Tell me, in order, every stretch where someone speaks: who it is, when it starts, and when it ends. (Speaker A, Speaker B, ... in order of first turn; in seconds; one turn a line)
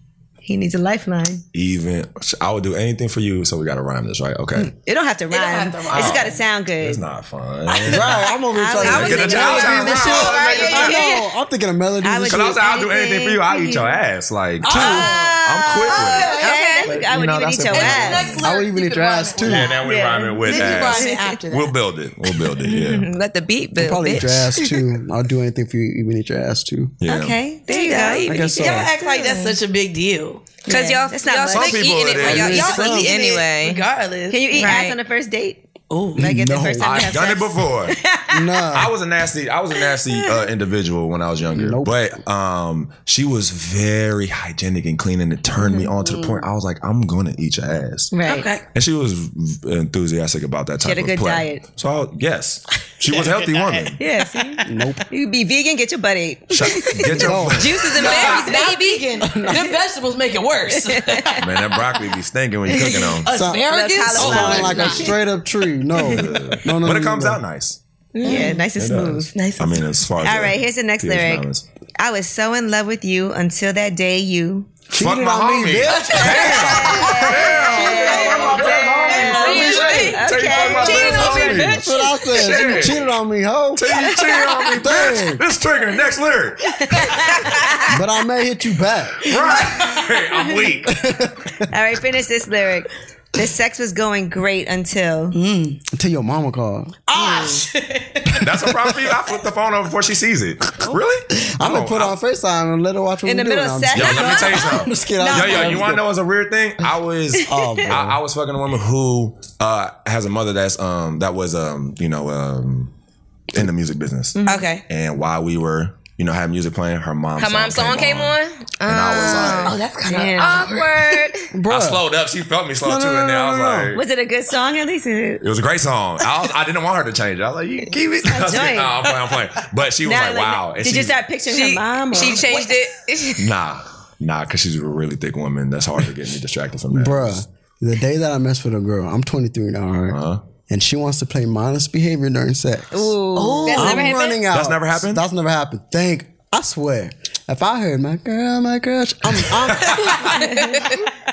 Speaker A: 0.4-1.4
Speaker B: 1.5-4.7
Speaker A: 4.6-7.0
Speaker C: 5.3-6.4
Speaker B: 5.9-8.2
Speaker A: 7.7-11.0
Speaker D: 7.8-12.6
Speaker B: 8.8-11.0
Speaker E: 8.8-11.0
Speaker C: 9.2-11.1
Speaker A: 12.0-14.0
Speaker B: 12.3-18.5
Speaker C: 14.6-16.7
Speaker A: 14.7-18.3
Speaker E: 15.9-16.9
Speaker C: 17.7-19.9
Speaker D: 18.4-19.7
Speaker B: 19.4-23.1
Speaker A: 19.5-21.4
Speaker C: 20.4-21.7
Speaker E: 22.6-24.8
Speaker D: 23.8-26.9
Speaker B: 27.0-27.4
Speaker A: 27.1-28.9
Speaker E: 27.7-29.6
Speaker C: 27.8-30.5
Speaker D: 28.2-28.9
Speaker A: 30.6-31.9
Speaker E: 30.7-33.8
Speaker B: 31.5-32.8
Speaker D: 32.2-33.1
Speaker C: 32.2-34.8
Speaker A: 34.3-35.6
Speaker E: 34.5-35.0
Speaker C: 35.9-36.3
Speaker D: 36.1-37.1
Speaker A: 36.1-38.7
Speaker B: 36.8-38.0
Speaker D: 38.3-38.9
Speaker B: 38.7-48.1
Speaker A: 39.8-40.4
Speaker D: 41.5-41.9
Speaker C: 46.0-46.4
Speaker A: 48.1-48.5
Speaker C: 48.2-48.6
Speaker B: 48.7-54.0
Speaker A: 50.8-51.6
Speaker C: 53.0-54.6
Speaker A: 54.0-58.7
Speaker D: 54.6-55.0
Speaker B: 56.5-58.3
Speaker D: 57.2-57.7
Speaker E: 57.5-59.2
Speaker C: 57.9-61.7
Speaker D: 59.2-59.7
Speaker A: 60.8-61.3
Speaker B: 61.4-63.3
Speaker C: 62.7-65.1
Speaker D: 63.3-67.4
Speaker A: 63.7-65.2
Speaker B: 64.2-64.7
Speaker B: 66.0-67.8
Speaker E: 68.1-68.6
Speaker C: 68.2-68.6
Speaker A: 68.2-69.4
Speaker B: 68.8-71.6
Speaker C: 69.3-69.8
Speaker A: 70.2-71.5
Speaker A: 72.0-74.7
Speaker D: 74.9-78.2
Speaker B: 74.9-83.0
Speaker C: 76.0-81.3
Speaker A: 76.1-82.8
Speaker E: 79.1-81.5
Speaker D: 81.1-84.1
Speaker B: 83.7-87.3
Speaker A: 83.9-84.7
Speaker D: 84.7-85.4
Speaker A: 86.7-87.9
Speaker D: 87.8-89.3
Speaker B: 89.2-91.0
Speaker D: 90.8-91.5
Speaker A: 91.7-95.4
Speaker C: 95.3-95.8
Speaker D: 95.9-97.3
Speaker C: 97.1-98.5
Speaker A: 97.2-97.6
Speaker B: 98.3-102.2
Speaker D: 101.4-106.0
Speaker A: 103.2-104.8
Speaker B: 103.9-112.9
Speaker C: 105.2-106.0
Speaker D: 107.5-108.2
Speaker B: 113.5-119.8
Speaker A: 114.3-114.7
Speaker C: 114.4-114.8
Speaker E: 117.4-119.8
Speaker C: 119.2-121.3
Speaker A: 120.1-120.7
Speaker E: 120.3-121.5
Speaker D: 121.5-122.0
Speaker B: 121.7-124.0
Speaker D: 122.8-124.0
Speaker A: 123.9-125.5
Speaker B: 125.4-131.2
Speaker A: 128.2-129.0
Speaker A: 130.0-132.5
Speaker E: 131.5-133.5
Speaker B: 133.4-137.4
Speaker D: 136.9-143.2
Speaker B: 140.1-140.4
Speaker A: 142.9-144.1
Speaker C: 143.3-144.3
Speaker E: 143.7-144.4
Speaker D: 143.7-150.3
Speaker B: 144.4-145.2
Speaker B: 149.4-150.4
Speaker C: 150.3-150.6
Speaker E: 150.3-151.0